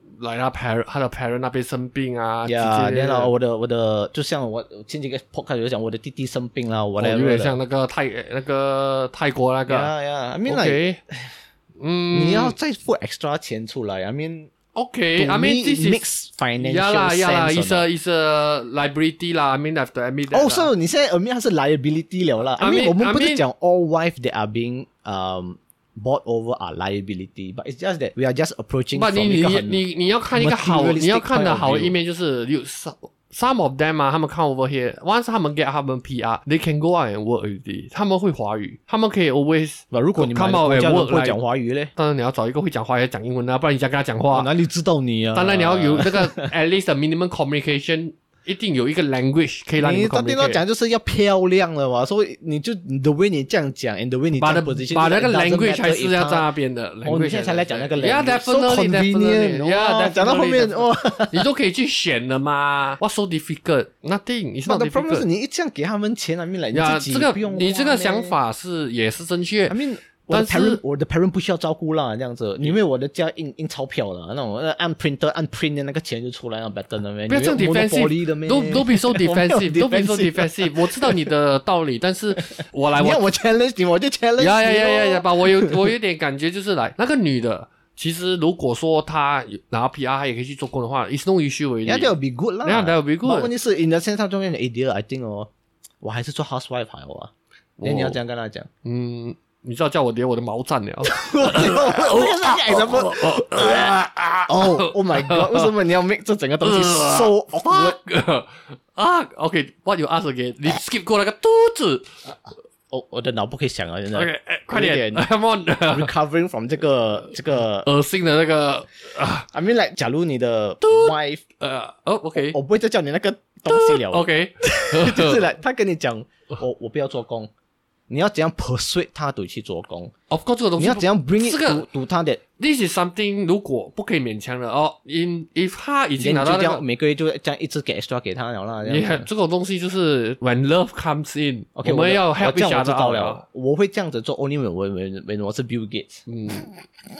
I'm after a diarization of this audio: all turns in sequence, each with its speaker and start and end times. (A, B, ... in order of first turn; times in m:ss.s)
0:00.2-0:03.3 A
0:02.5-0:07.6 B
0:07.0-0:09.9 A
0:09.7-0:11.3 B
0:10.4-0:11.0 A
0:11.8-0:12.6 A
0:12.1-0:14.5 B
0:14.8-0:16.0 A
0:15.2-0:17.9 B
0:16.6-0:20.7 A
0:20.3-0:32.0 B
0:22.6-0:23.4 A
0:28.9-0:41.4 A
0:39.9-0:41.9 B
0:42.0-0:44.5 A
0:44.3-0:46.4 B
0:45.3-0:50.6 A
0:49.8-0:56.5 B
0:54.4-1:05.3 A
0:57.0-1:01.5 B
1:04.7-1:08.4 B
1:06.7-1:10.8 A
1:09.7-1:21.3 B
1:17.3-1:23.3 A
1:23.0-1:25.9 B
1:24.4-1:32.1 A
1:31.8-1:35.5 B
1:32.6-1:33.5 A
1:36.0-1:38.7 B
1:37.8-1:38.2 A
1:38.8-1:45.7 A
1:41.0-1:48.0 B
1:46.6-1:52.1 A
1:52.3-1:55.2 B
1:54.1-1:56.1 A
1:55.9-1:57.9 B
1:57.6-1:59.5 A
1:59.5-2:01.4 B
2:00.8-2:02.6 A
2:02.4-2:07.5 B
2:03.7-2:05.4 A
2:08.1-2:10.1 B
2:10.3-2:11.9 A
2:10.8-2:12.4 B
2:12.6-2:16.8 A
2:16.2-2:19.3 B
2:18.9-2:23.4 A
2:21.8-2:26.3 B
2:26.3-2:26.7 A